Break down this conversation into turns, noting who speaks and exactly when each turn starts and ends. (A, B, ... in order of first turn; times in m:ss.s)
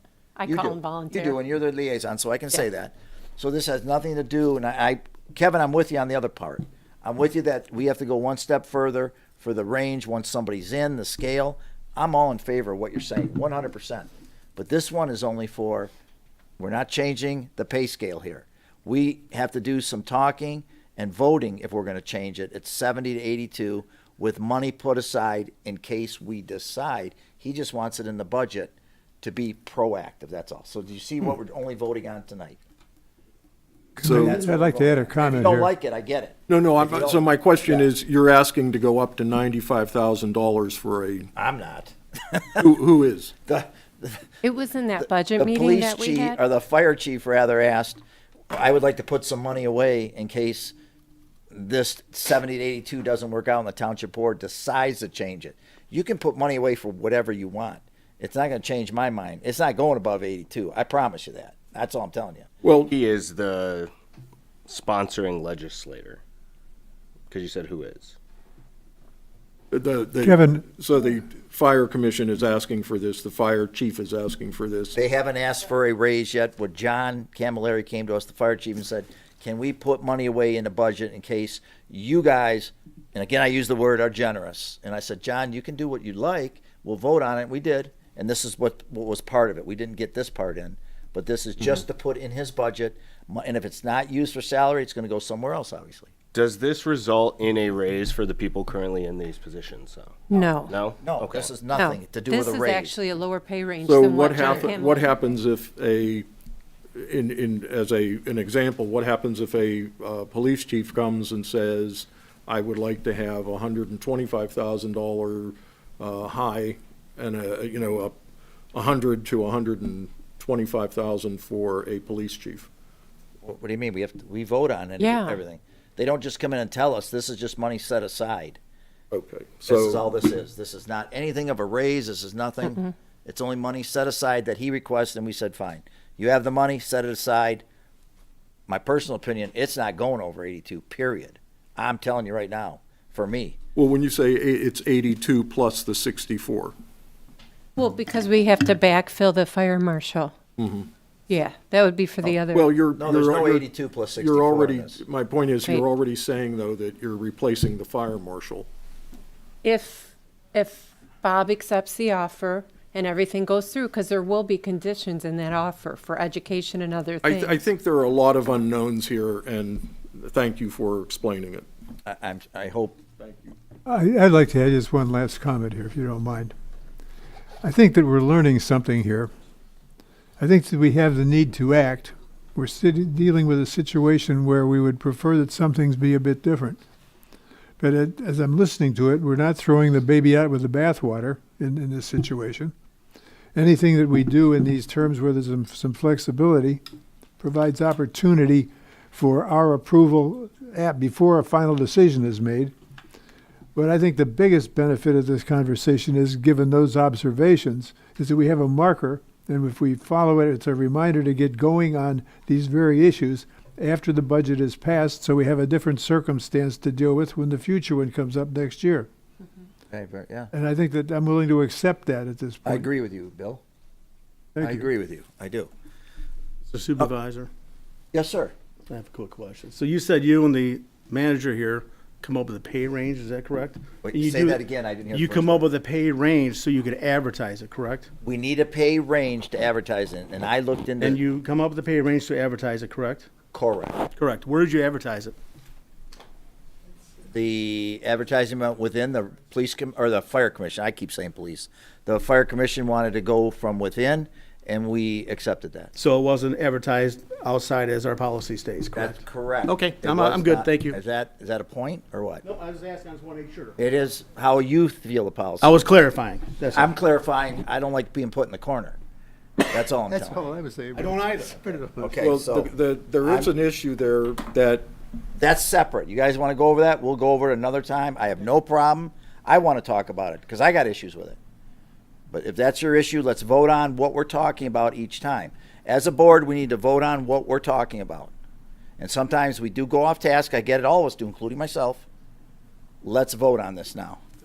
0:00.4-0:01.4 A
0:00.4-0:15.9 B
0:16.6-0:32.6 B
0:34.0-0:35.7 C
0:34.0-0:34.4 D
0:34.0-0:37.9 B
0:36.5-0:41.3 D
0:41.3-0:42.6 B
0:42.6-0:43.3 D
0:43.4-0:44.3 B
0:44.4-0:46.4 A
0:45.0-0:48.0 B
0:48.5-0:50.7 B
0:51.5-1:02.5 B
1:02.6-1:02.9 D
1:02.9-1:03.9 E
1:04.7-1:06.2 E
1:07.3-1:08.1 E
1:09.7-1:15.0 D
1:10.2-1:10.6 C
1:14.9-1:36.1 B
1:36.3-1:41.5 E
1:40.3-1:40.7 A
1:41.0-1:43.0 B
1:41.7-1:45.1 A
1:43.8-1:46.3 D
1:47.0-1:58.1 D
1:58.7-2:02.7 D
2:03.4-2:08.6 B
2:05.0-2:05.4 A
2:09.1-2:10.0 D
2:09.7-2:17.6 B
2:18.7-2:23.6 B
2:23.8-2:26.7 D
2:27.8-2:30.3 A
2:30.6-2:30.9 D
2:31.3-2:32.7 A
2:32.5-2:38.7 D
2:33.0-2:35.0 B
2:39.6-2:47.6 A
2:47.2-2:51.6 D
2:52.0-2:53.0 B
2:53.2-2:53.5 D
2:53.8-2:56.5 C
2:57.6-2:59.3 C
3:00.4-3:06.8 C
3:07.8-3:12.7 C
3:13.5-3:16.8 C
3:17.4-3:22.7 C
3:23.7-3:39.1 C
3:39.9-3:40.5 B
3:40.5-3:42.9 C
3:42.6-3:43.6 B
3:44.6-3:44.8 C
3:44.6-3:45.7 B
3:46.7-3:47.5 F
3:48.1-3:48.5 B
3:48.9-3:58.1 F
3:54.0-3:55.7 B
3:58.2-4:01.2 B
4:01.0-4:03.3 F
4:03.5-4:04.0 B
4:04.2-4:05.4 F
4:07.3-4:15.9 B
4:16.0-4:21.0 F
4:18.9-4:22.4 B
4:22.4-4:23.8 F
4:23.8-4:25.8 B
4:25.6-4:26.9 F
4:26.7-4:29.0 B
4:29.6-4:30.5 B
4:30.3-4:31.0 C
4:30.9-4:32.0 F
4:31.8-4:33.5 B
4:32.2-4:34.9 D
4:35.4-4:41.4 B
4:42.3-4:48.3 B
4:49.0-4:52.0 B
4:53.0-4:54.2 B